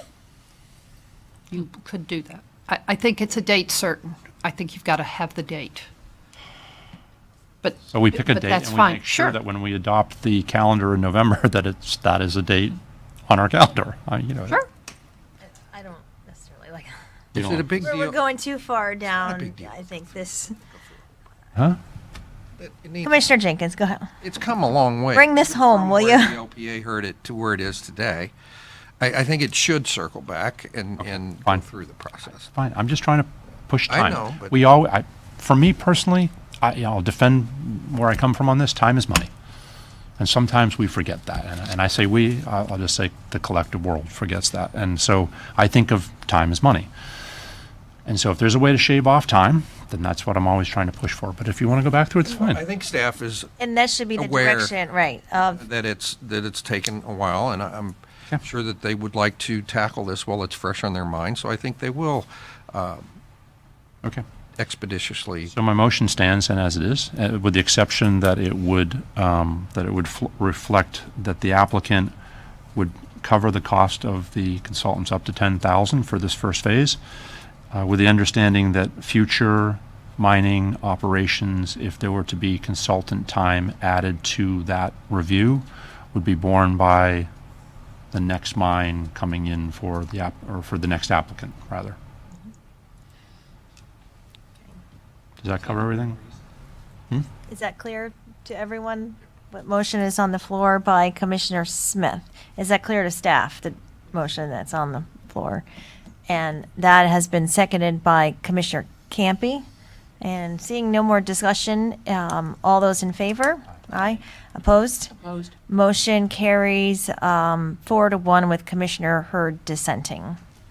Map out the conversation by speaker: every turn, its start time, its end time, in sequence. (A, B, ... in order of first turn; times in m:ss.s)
0:01.5-0:05.9 A
0:07.6-0:09.4 A
0:07.9-0:14.6 B
0:15.7-0:17.0 C
0:17.4-0:17.7 B
0:17.4-0:18.2 D
0:17.8-0:20.6 C
0:19.1-0:20.0 D
0:22.6-0:23.1 D
0:23.0-0:24.1 C
0:24.2-0:28.3 D
0:25.2-0:26.4 C
0:29.0-0:32.5 D
0:31.0-0:31.6 B
0:32.4-0:39.3 B
0:33.9-0:34.6 D
0:40.2-0:46.9 B
0:48.1-0:52.6 B
0:52.3-0:53.5 D
0:53.6-0:55.6 C
0:54.2-0:54.7 D
0:55.6-1:03.1 D
1:04.6-1:05.5 D
1:05.5-1:12.1 B
1:12.8-1:17.0 B
1:17.7-1:27.3 B
1:28.1-1:32.0 B
1:35.4-1:36.2 B
1:37.5-1:45.6 C
1:46.3-1:49.6 C
1:50.2-1:55.1 C
1:55.7-2:00.4 C